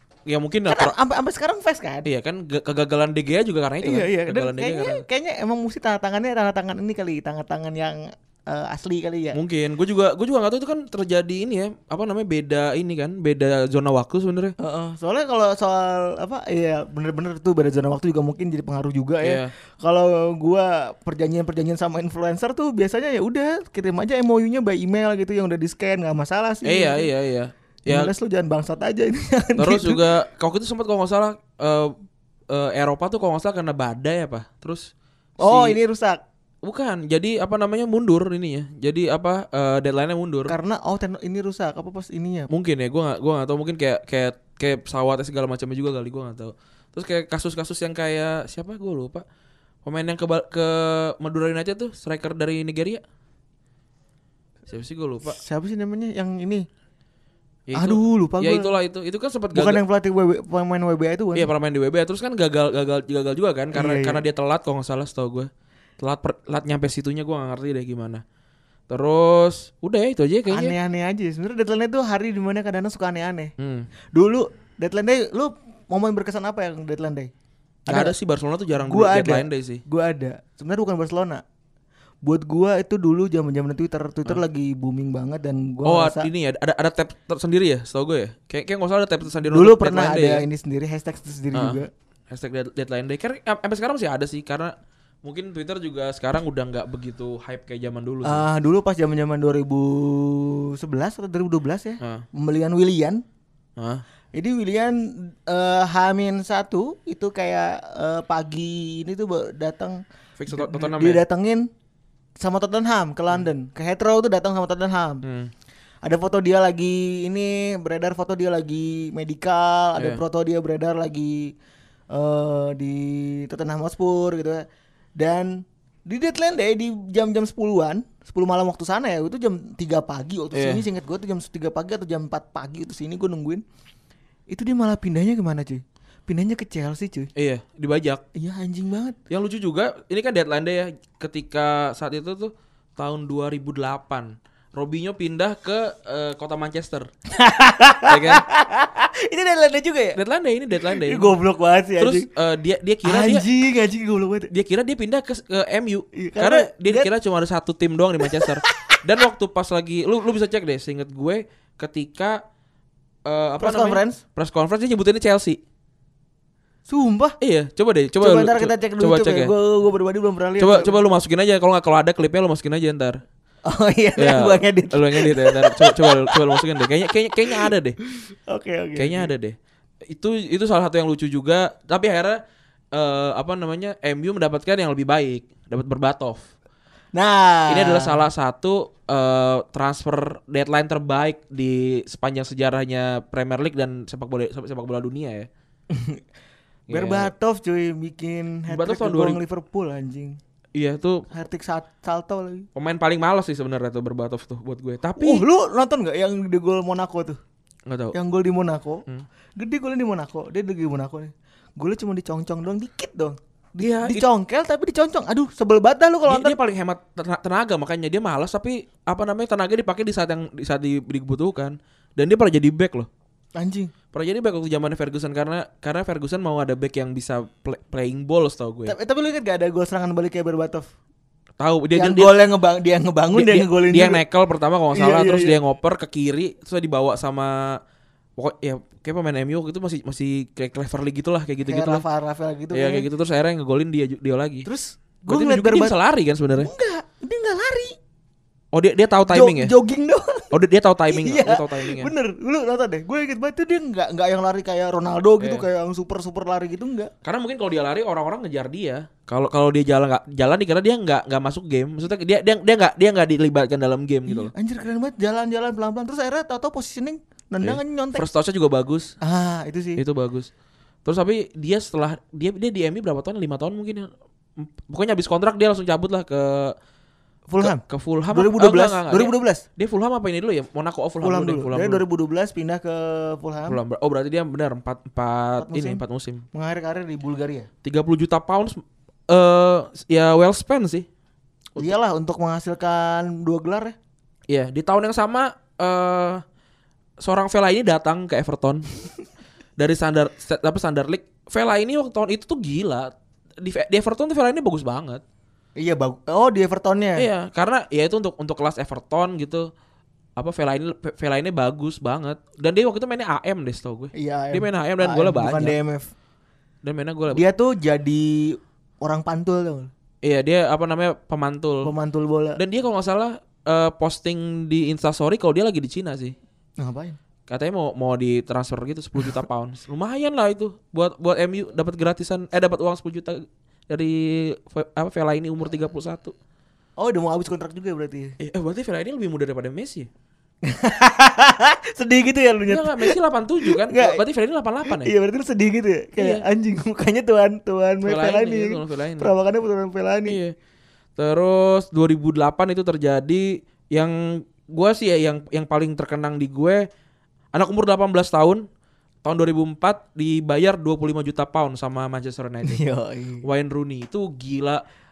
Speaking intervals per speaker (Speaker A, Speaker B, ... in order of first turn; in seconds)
Speaker A: 0.3-0.9, 2.0-5.0, 9.3-14.5, 19.2-19.5, 26.6-28.1, 29.6-31.9, 32.5-35.8, 36.6-40.5, 42.5-49.2, 49.8-53.0, 54.7-55.4, 57.7-59.8, 61.4-68.2, 68.9-70.8, 73.6-73.9, 77.9-79.8, 85.8-90.5, 91.5-94.7, 95.2-98.5, 102.0-102.2, 103.8-104.0, 110.4-111.2, 115.2-115.5, 120.0-120.2, 130.5-130.8, 137.4-138.2, 139.3-147.1, 148.1-148.4, 150.2-151.3, 152.0-153.5, 154.5-162.4, 163.3-165.6, 167.4-169.5, 170.6-173.2, 174.2-178.0, 179.0-179.6, 180.1-182.4, 182.9-186.5, 187.7-195.5, 196.9-197.3, 198.7-199.4, 200.8-201.3, 202.8-205.4, 207.9-208.2, 213.8-214.3, 216.3-223.1, 224.1-228.9, 231.6-232.3, 233.3-237.8, 238.4-242.1, 242.7-244.7, 245.3-246.7, 248.7-249.7, 250.5-252.1, 255.4-255.7, 257.2-264.5, 267.6-269.1, 270.0-270.5, 271.1-276.8, 277.6-282.0, 283.7-286.4, 287.8-291.1, 294.5-296.4, 297.2-298.9, 299.8-305.2, 307.2-309.7, 310.4-315.8, 316.8-317.4, 320.2-321.9, 322.6-326.4, 327.5-336.4, 338.4-340.1, 342.7-345.1, 346.2-346.4, 348.1-349.3, 350.3-350.5, 351.2-356.9, 357.5-358.6, 359.2-362.8, 363.4-364.8
Speaker B: 0.7-2.1, 3.8-9.4, 14.6-27.1, 27.9-30.0, 35.4-36.2, 40.5-42.5, 55.2-56.7, 57.8-58.7, 59.5-61.5, 63.7-64.2, 70.5-73.5, 74.1-77.3, 77.9-78.1, 78.8-81.4, 82.2-86.3, 89.4-91.9, 98.2-103.2, 104.3-111.7, 112.4-115.2, 116.0-121.5, 122.1-124.7, 125.2-133.6, 134.5-137.3, 138.3-139.2, 147.3-150.2, 150.8-152.3, 153.0-154.5, 156.1-157.1, 158.2-158.9, 163.6-164.2, 166.9-167.4, 168.2-171.0, 173.7-176.7, 177.5-179.3, 187.1-188.2, 195.9-196.2, 196.9-200.4, 201.3-202.7, 205.2-207.4, 208.1-209.0, 209.6-216.6, 223.6-223.9, 228.9-230.9, 231.9-234.2, 234.9-235.6, 241.7-243.1, 244.7-246.0, 246.6-248.0, 249.3-250.6, 251.1-257.1, 264.3-268.2, 269.2-270.0, 277.5-279.6, 281.2-283.8, 285.6-286.0, 286.5-287.7, 291.8-294.0, 305.8-307.3, 314.1-316.1, 317.3-319.9, 321.8-322.6, 326.8-327.2, 337.0-338.4, 340.6-344.2, 344.9-350.4, 362.6-363.4